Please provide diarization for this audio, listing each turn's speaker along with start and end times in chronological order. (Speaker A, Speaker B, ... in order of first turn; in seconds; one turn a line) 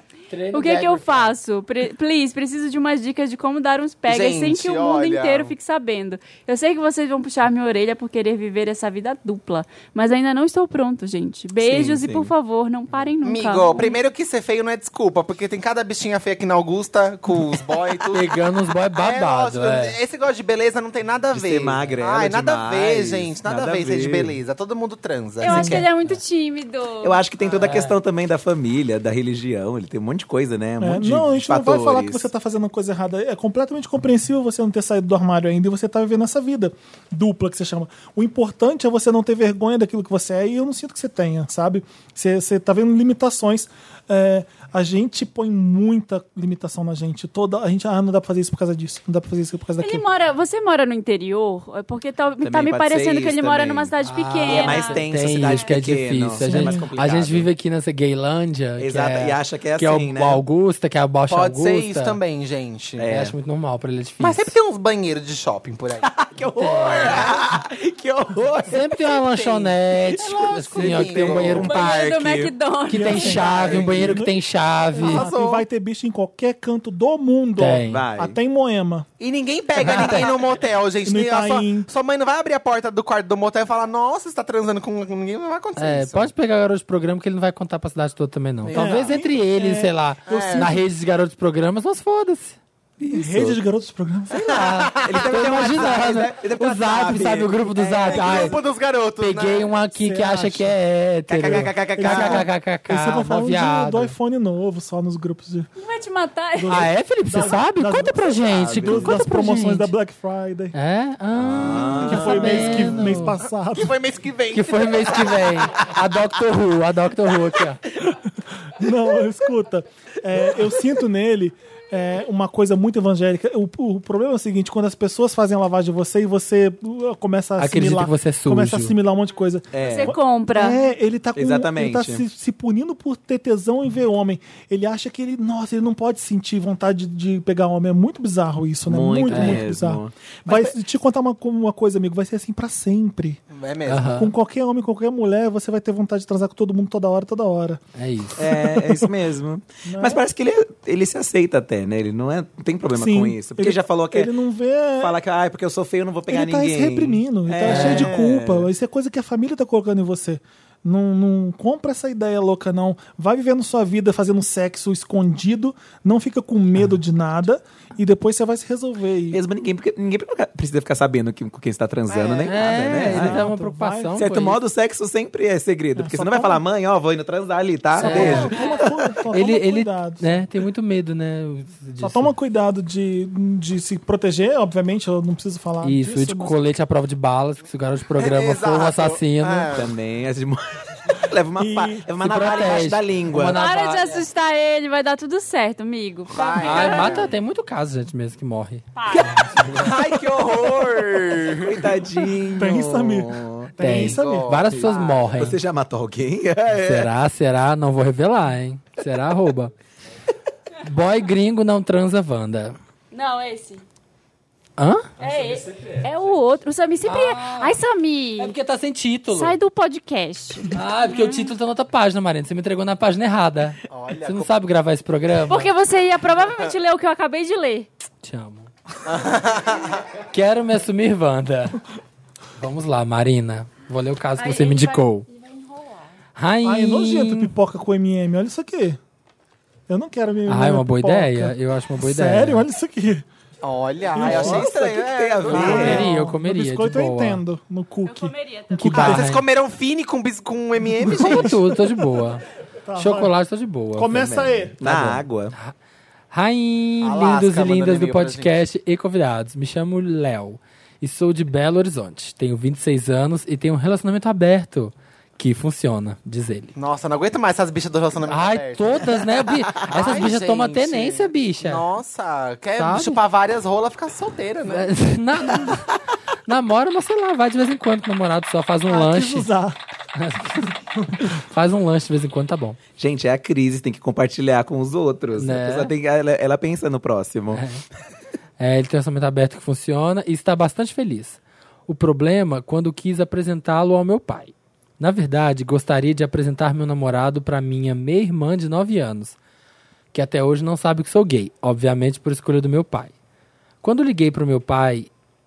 Speaker A: 0.3-1.4
Speaker B: 0.5-14.0
Speaker C: 4.1-5.5
Speaker D: 11.6-12.3
Speaker C: 13.2-18.4
Speaker A: 18.1-20.0
Speaker C: 18.9-25.9
Speaker D: 21.3-24.4
Speaker B: 25.4-27.2
Speaker E: 25.5-25.9
Speaker D: 27.0-32.3
Speaker A: 27.5-28.0
Speaker E: 30.8-50.0
Speaker B: 49.8-55.7
Speaker D: 52.4-57.5
Speaker A: 54.0-62.2
Speaker E: 56.4-56.9
Speaker D: 58.8-60.4
Speaker C: 61.3-63.0
Speaker D: 63.0-63.4
Speaker A: 63.1-64.6
Speaker C: 64.2-66.1
Speaker D: 66.0-68.9
Speaker A: 66.6-67.3
Speaker C: 67.0-67.4
Speaker A: 68.7-72.0
Speaker C: 69.3-71.8
Speaker D: 70.7-72.5
Speaker B: 71.6-73.8
Speaker A: 72.9-75.3
Speaker E: 72.9-74.3
Speaker C: 73.4-73.9
Speaker E: 74.9-79.1
Speaker C: 75.0-75.7
Speaker A: 77.6-78.0
Speaker D: 77.9-78.4
Speaker C: 79.2-86.3
Speaker A: 79.8-80.3
Speaker E: 81.0-81.9
Speaker A: 85.8-92.6
Speaker E: 88.7-90.8
Speaker C: 90.3-90.8
Speaker D: 93.0-93.6
Speaker E: 93.1-94.6
Speaker C: 94.3-95.9
Speaker A: 94.4-98.6
Speaker D: 95.0-98.5
Speaker C: 98.1-99.7
Speaker A: 99.2-104.1
Speaker E: 100.0-100.7
Speaker D: 101.3-102.5
Speaker E: 101.5-105.7
Speaker B: 105.8-106.8
Speaker E: 106.6-110.8
Speaker A: 106.7-109.9
Speaker D: 108.5-109.2
Speaker A: 110.7-113.4
Speaker D: 111.3-113.2
Speaker E: 112.0-114.0
Speaker C: 113.7-115.9
Speaker A: 114.5-117.8
Speaker E: 118.8-143.4
Speaker A: 127.6-128.9
Speaker D: 129.7-130.1
Speaker B: 129.8-130.8
Speaker D: 131.3-132.2
Speaker D: 138.9-140.8
Speaker A: 139.3-139.7
Speaker C: 143.5-144.3
Speaker A: 143.9-144.3
Speaker E: 144.2-147.8
Speaker A: 147.9-148.6
Speaker D: 148.4-154.3
Speaker E: 149.8-150.2
Speaker E: 152.9-155.2
Speaker D: 155.0-158.7
Speaker E: 156.3-169.4
Speaker A: 157.7-158.1
Speaker D: 169.3-173.5
Speaker C: 172.1-172.6
Speaker A: 172.4-174.6
Speaker E: 172.9-174.2
Speaker D: 174.2-178.5
Speaker E: 176.0-176.6
Speaker E: 178.0-180.4
Speaker A: 178.0-178.7
Speaker B: 178.6-178.8
Speaker A: 179.3-182.3
Speaker E: 182.0-186.6
Speaker A: 185.8-189.8
Speaker C: 188.2-189.9
Speaker D: 189.7-193.6
Speaker E: 191.6-192.1
Speaker A: 192.2-194.2
Speaker B: 193.5-197.3
Speaker C: 196.3-197.3
Speaker A: 196.6-198.9
Speaker B: 199.0-199.4
Speaker D: 199.5-204.0
Speaker C: 199.8-201.9
Speaker E: 202.6-204.6
Speaker A: 203.8-205.6
Speaker C: 203.8-205.4
Speaker D: 204.7-207.1
Speaker A: 206.7-209.7
Speaker A: 210.8-212.8
Speaker B: 213.1-213.8
Speaker A: 214.8-215.1
Speaker B: 215.2-218.6
Speaker A: 217.0-217.8
Speaker A: 218.4-219.6
Speaker B: 219.3-221.5
Speaker A: 220.7-225.7
Speaker C: 223.9-224.5
Speaker B: 225.5-227.9
Speaker A: 228.2-228.7
Speaker C: 229.1-230.0
Speaker A: 230.3-231.8
Speaker A: 232.6-235.3
Speaker B: 234.4-236.0
Speaker A: 236.4-237.5
Speaker E: 236.6-239.0
Speaker E: 239.9-243.3
Speaker A: 240.5-242.7
Speaker C: 243.6-246.1
Speaker E: 244.1-244.7
Speaker D: 244.2-246.1
Speaker E: 245.5-249.3
Speaker A: 245.6-247.4
Speaker B: 248.1-248.9
Speaker A: 248.8-249.4
Speaker C: 248.9-251.6
Speaker A: 251.1-252.4
Speaker E: 252.9-253.3
Speaker A: 253.0-255.7
Speaker E: 254.0-254.8
Speaker D: 254.2-255.5
Speaker A: 256.3-266.7
Speaker C: 257.0-258.5
Speaker C: 266.8-269.2
Speaker A: 268.3-271.8
Speaker C: 269.8-274.9
Speaker A: 272.8-273.2
Speaker A: 274.7-279.5
Speaker E: 278.9-279.8
Speaker A: 280.2-282.8
Speaker E: 281.0-281.3
Speaker D: 283.0-287.6
Speaker A: 285.4-285.9
Speaker A: 287.5-287.8
Speaker A: 288.6-299.4
Speaker A: 300.1-303.1
Speaker A: 303.8-305.1